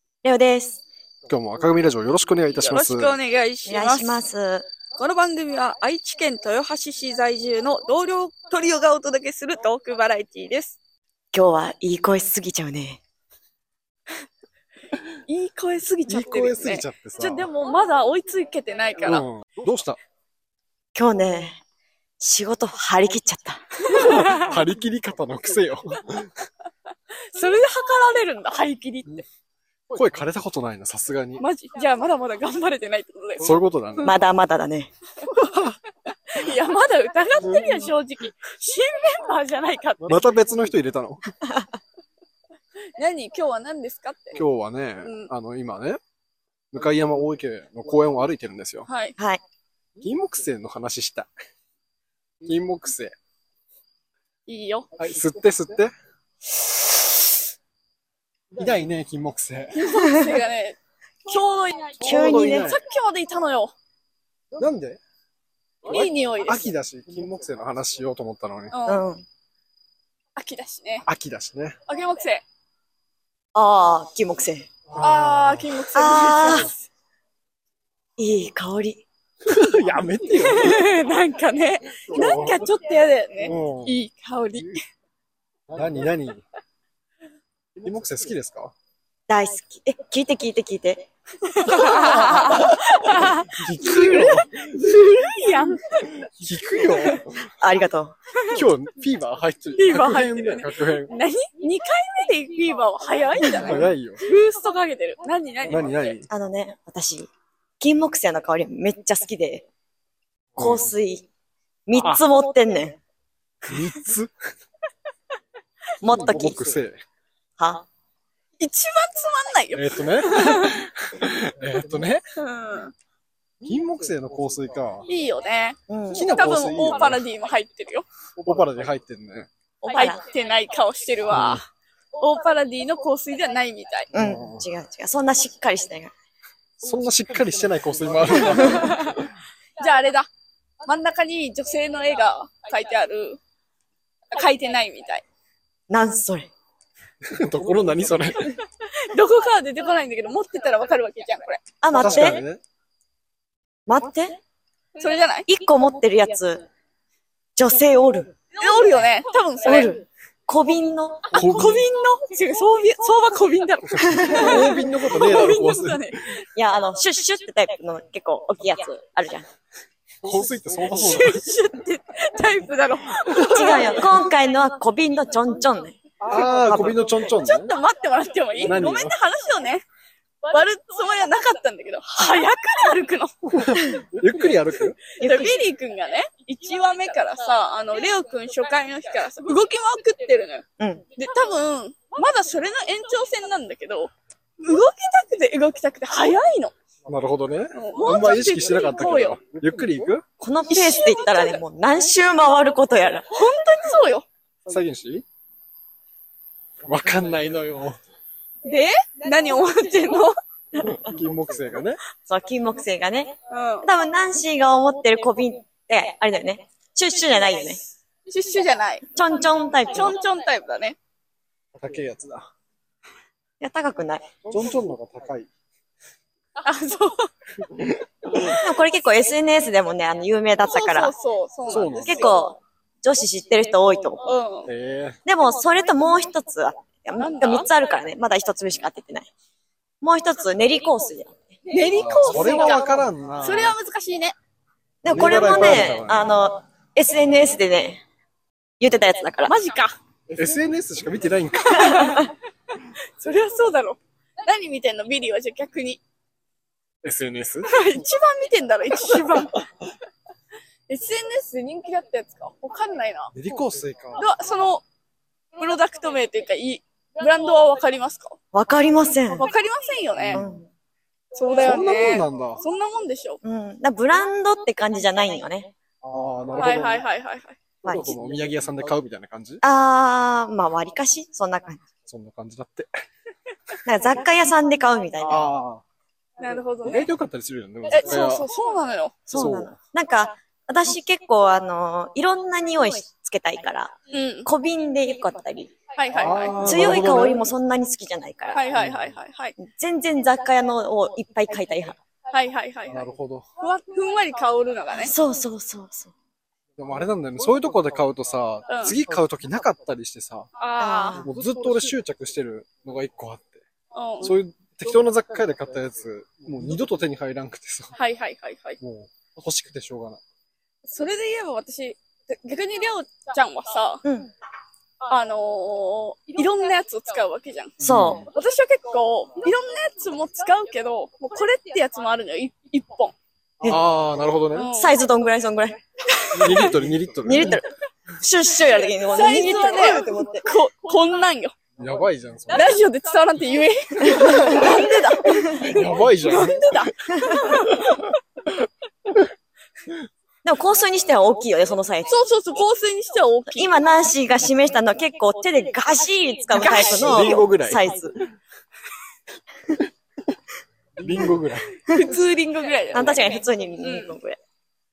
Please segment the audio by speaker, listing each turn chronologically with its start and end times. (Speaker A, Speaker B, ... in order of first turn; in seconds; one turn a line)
Speaker A: 0.2-0.8
Speaker B: 1.3-3.2
Speaker C: 2.5-4.2
Speaker A: 3.7-4.7
Speaker C: 5.0-10.8
Speaker A: 11.3-13.0
Speaker C: 15.3-19.2
Speaker B: 16.1-17.5
Speaker B: 19.1-20.0
Speaker A: 20.9-21.6
Speaker A: 22.2-24.1
Speaker C: 23.9-24.4
Speaker B: 24.0-26.3
Speaker C: 27.3-29.2
Speaker B: 29.9-31.5
Speaker C: 31.4-33.6
Speaker B: 33.4-34.1
Speaker A: 34.0-34.9
Speaker C: 35.3-35.8
Speaker C: 36.3-40.2
Speaker B: 40.0-41.3
Speaker C: 43.0-44.4
Speaker B: 44.4-46.0
Speaker C: 45.0-45.3
Speaker B: 46.7-48.9
Speaker C: 48.9-49.2
Speaker B: 50.0-51.3
Speaker B: 52.4-53.1
Speaker C: 54.5-54.9
Speaker B: 55.0-55.9
Speaker B: 58.6-59.8
Speaker C: 59.7-63.7
Speaker B: 62.0-62.8
Speaker A: 62.0-62.7
Speaker B: 64.6-65.0
Speaker C: 65.9-66.7
Speaker B: 65.9-68.8
Speaker C: 68.7-69.0
Speaker A: 68.9-69.3
Speaker C: 70.4-71.0
Speaker B: 71.1-71.8
Speaker C: 71.9-72.5
Speaker A: 73.5-74.7
Speaker B: 74.9-75.8
Speaker C: 75.0-76.9
Speaker A: 76.0-76.7
Speaker A: 78.2-79.0
Speaker B: 79.5-80.8
Speaker C: 80.4-84.8
Speaker B: 82.1-82.6
Speaker B: 83.5-84.0
Speaker B: 85.7-86.4
Speaker B: 87.8-88.7
Speaker A: 89.3-91.1
Speaker C: 91.5-96.3
Speaker A: 91.6-92.8
Speaker B: 93.4-94.5
Speaker B: 96.4-97.4
Speaker A: 97.6-98.2
Speaker B: 98.5-101.1
Speaker C: 99.8-106.2
Speaker B: 103.6-104.2
Speaker B: 105.7-106.3
Speaker A: 106.3-107.3
Speaker A: 107.8-109.7
Speaker B: 110.6-110.9
Speaker A: 110.6-111.3
Speaker A: 111.9-113.0
Speaker B: 112.0-112.2
Speaker B: 113.7-114.3
Speaker A: 116.0-116.8
Speaker B: 116.0-117.0
Speaker A: 117.6-117.9
Speaker C: 118.6-120.8
Speaker B: 119.7-122.2
Speaker C: 122.4-122.9
Speaker B: 123.6-125.1
Speaker C: 125.1-128.1
Speaker A: 125.9-126.3
Speaker B: 126.1-127.2
Speaker B: 128.4-129.5
Speaker A: 129.8-130.2
Speaker C: 129.9-131.7
Speaker B: 131.3-131.6
Speaker C: 132.2-134.1
Speaker B: 134.1-134.7
Speaker A: 134.1-136.1
Speaker B: 136.8-139.2
Speaker C: 138.5-139.2
Speaker C: 139.8-140.3
Speaker C: 140.8-143.4
Speaker C: 144.3-145.2
Speaker A: 145.9-146.5
Speaker B: 147.2-148.6
Speaker C: 149.0-151.6
Speaker A: 151.8-152.4
Speaker B: 151.9-152.6
Speaker A: 153.9-154.4
Speaker C: 155.0-155.5
Speaker A: 155.5-156.7
Speaker A: 157.6-158.3
Speaker C: 158.6-159.9
Speaker A: 159.6-161.3
Speaker C: 161.3-166.4
Speaker B: 161.3-161.9
Speaker A: 164.0-164.6
Speaker B: 164.3-166.2
Speaker A: 166.6-169.5
Speaker B: 170.2-171.4
Speaker C: 170.9-174.1
Speaker A: 173.4-176.0
Speaker B: 176.2-177.7
Speaker A: 176.6-177.1
Speaker C: 177.3-179.8
Speaker B: 178.6-179.2
Speaker C: 180.5-183.9
Speaker B: 183.5-185.0
Speaker C: 185.2-190.7
Speaker A: 185.2-185.6
Speaker C: 191.2-196.7
Speaker B: 197.1-200.2
Speaker C: 197.7-199.4
Speaker A: 200.4-203.3
Speaker C: 200.7-201.6
Speaker C: 203.3-204.3
Speaker B: 204.7-205.2
Speaker B: 206.8-208.0
Speaker C: 208.7-210.3
Speaker B: 210.8-212.0
Speaker A: 212.3-217.8
Speaker C: 213.5-213.9
Speaker C: 218.3-219.1
Speaker A: 219.1-220.2
Speaker C: 219.9-221.0
Speaker B: 221.8-222.5
Speaker A: 223.6-224.3
Speaker B: 224.5-225.5
Speaker C: 226.6-227.3
Speaker B: 227.8-228.6
Speaker A: 228.4-231.1
Speaker C: 230.7-232.4
Speaker B: 231.7-232.4
Speaker A: 232.0-234.2
Speaker C: 234.2-234.7
Speaker B: 234.7-235.2
Speaker A: 235.2-239.3
Speaker C: 237.2-237.7
Speaker A: 240.0-241.4
Speaker C: 241.7-242.9
Speaker B: 241.9-243.7
Speaker C: 243.4-244.4
Speaker A: 245.0-248.0
Speaker B: 245.1-246.2
Speaker A: 248.8-249.5
Speaker C: 249.4-249.9
Speaker B: 250.3-252.1
Speaker C: 251.7-256.0
Speaker B: 257.0-257.7
Speaker C: 257.6-259.6
Speaker C: 260.9-263.3
Speaker B: 263.4-264.2
Speaker C: 264.2-264.8
Speaker C: 265.6-268.4
Speaker A: 268.5-269.5
Speaker C: 269.3-270.4
Speaker B: 270.2-270.5
Speaker A: 270.3-270.7
Speaker C: 271.3-273.4
Speaker B: 271.6-272.6
Speaker A: 273.4-275.7
Speaker B: 276.0-277.0
Speaker C: 276.6-277.6
Speaker A: 277.8-278.2
Speaker B: 277.8-279.6
Speaker A: 279.6-281.8
Speaker B: 282.1-282.9
Speaker A: 283.9-285.4
Speaker B: 285.2-285.8
Speaker C: 286.4-287.1
Speaker B: 286.8-288.5
Speaker C: 287.9-289.2
Speaker A: 289.3-293.9
Speaker B: 289.3-289.8
Speaker C: 294.1-294.5
Speaker A: 294.4-295.8
Speaker C: 295.9-296.6
Speaker B: 296.2-297.5
Speaker A: 296.6-298.7
Speaker C: 298.5-299.6
Speaker B: 298.8-299.0
Speaker A: 299.6-302.0
Speaker C: 302.3-303.1
Speaker B: 302.9-303.5
Speaker C: 303.6-305.1
Speaker A: 305.0-306.1
Speaker B: 306.8-310.5
Speaker C: 308.7-309.0
Speaker C: 310.6-311.2
Speaker A: 310.8-311.2
Speaker B: 311.2-313.6
Speaker C: 313.9-314.3
Speaker B: 314.2-317.9
Speaker C: 318.0-318.8
Speaker B: 318.8-320.2
Speaker C: 320.9-324.0
Speaker A: 324.0-324.3
Speaker C: 325.1-327.8
Speaker A: 327.8-328.2
Speaker B: 327.8-328.3
Speaker C: 328.3-333.1
Speaker B: 333.6-334.7
Speaker C: 334.5-334.9
Speaker A: 334.7-335.8
Speaker C: 336.1-336.7
Speaker B: 336.3-337.6
Speaker A: 337.2-340.5
Speaker C: 339.1-341.6
Speaker B: 341.8-342.8
Speaker C: 342.5-348.2
Speaker A: 344.1-344.8
Speaker B: 345.5-346.9
Speaker A: 350.4-352.2
Speaker C: 352.1-353.7
Speaker A: 353.5-358.1
Speaker C: 356.6-357.4
Speaker B: 356.8-357.8
Speaker B: 361.0-361.8
Speaker C: 361.9-364.2
Speaker A: 362.9-364.4